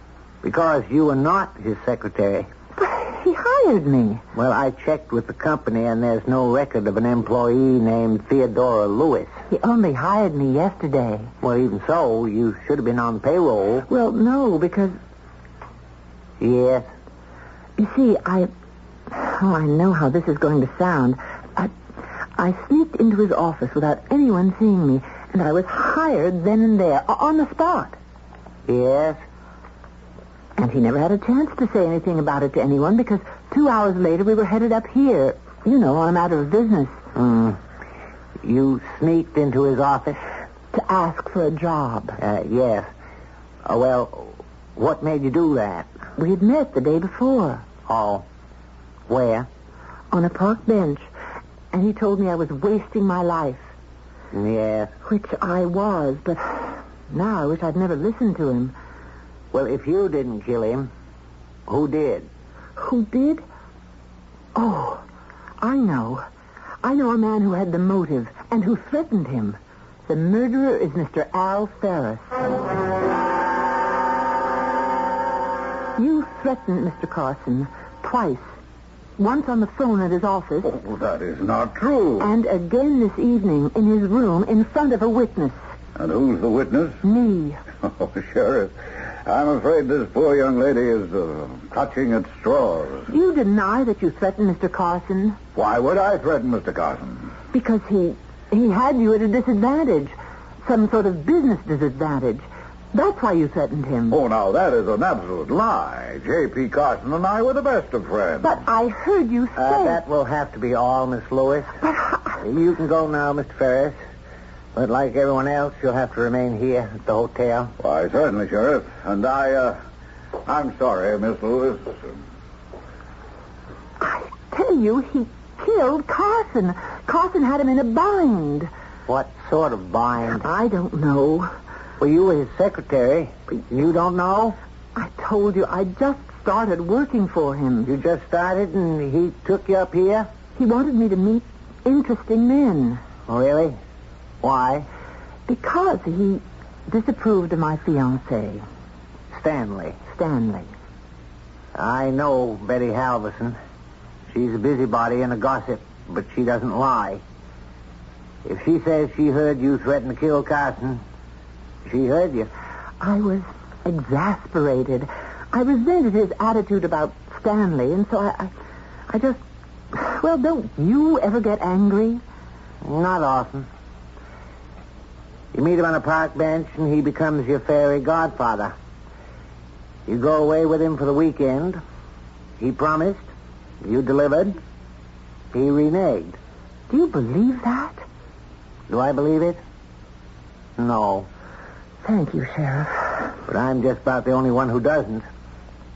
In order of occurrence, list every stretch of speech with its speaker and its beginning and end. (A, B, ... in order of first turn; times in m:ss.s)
0:00.4-0:02.5 A
0:02.8-0:04.2 B
0:04.3-0:09.3 A
0:09.5-0:11.3 B
0:11.4-0:13.8 A
0:13.9-0:15.0 B
0:16.4-0:16.8 A
0:17.8-0:18.5 B
0:19.1-0:21.7 B
0:22.4-0:28.0 B
0:28.7-0:29.2 A
0:30.6-0:37.0 B
0:37.1-0:37.6 A
0:38.4-0:40.2 A
0:40.7-0:42.2 B
0:42.2-0:42.9 A
0:43.6-0:45.9 A
0:46.2-0:47.6 B
0:47.9-0:48.2 A
0:49.1-0:49.5 A
0:50.1-0:51.1 B
0:51.7-0:53.7 B
0:54.3-0:54.9 A
0:55.0-0:58.7 B
0:59.5-1:00.9 A
1:01.7-1:02.3 A
1:02.8-1:03.4 B
1:04.5-1:05.0 B
1:05.6-1:06.2 B
1:06.8-1:12.3 B
1:16.0-1:18.5 B
1:19.2-1:20.7 B
1:20.6-1:22.3 C
1:22.2-1:25.6 B
1:26.0-1:27.0 C
1:27.0-1:27.6 B
1:27.8-1:28.7 C
1:29.2-1:33.1 C
1:33.1-1:35.4 B
1:35.5-1:37.3 C
1:37.5-1:44.2 B
1:44.1-1:48.6 C
1:48.4-1:50.0 B
1:49.6-1:51.8 A
1:52.4-1:54.0 A
1:54.7-1:57.7 A
1:57.8-1:59.8 C
2:00.4-2:02.1 C
2:04.0-2:08.7 B
2:09.1-2:10.4 A
2:10.4-2:11.5 B
2:12.0-2:14.6 A
2:15.0-2:17.9 B
2:17.8-2:20.3 A
2:20.6-2:23.0 B
2:23.3-2:23.8 A
2:24.4-2:24.9 A
2:25.5-2:28.6 B
2:29.3-2:30.0 A
2:30.1-2:30.7 B
2:31.7-2:33.6 A
2:34.3-2:37.2 A
2:38.4-2:41.0 A
2:41.8-2:42.5 A
2:43.0-2:48.5 B
2:49.1-2:49.4 B
2:49.9-2:52.2 B
2:52.8-2:53.7 A
2:55.5-2:58.7 A
3:00.1-3:01.8 A
3:02.6-3:03.3 A
3:03.8-3:04.6 A
3:05.5-3:06.4 A
3:06.9-3:08.0 B
3:08.9-3:09.6 A
3:10.8-3:11.3 A
3:12.0-3:13.3 B
3:13.5-3:15.2 A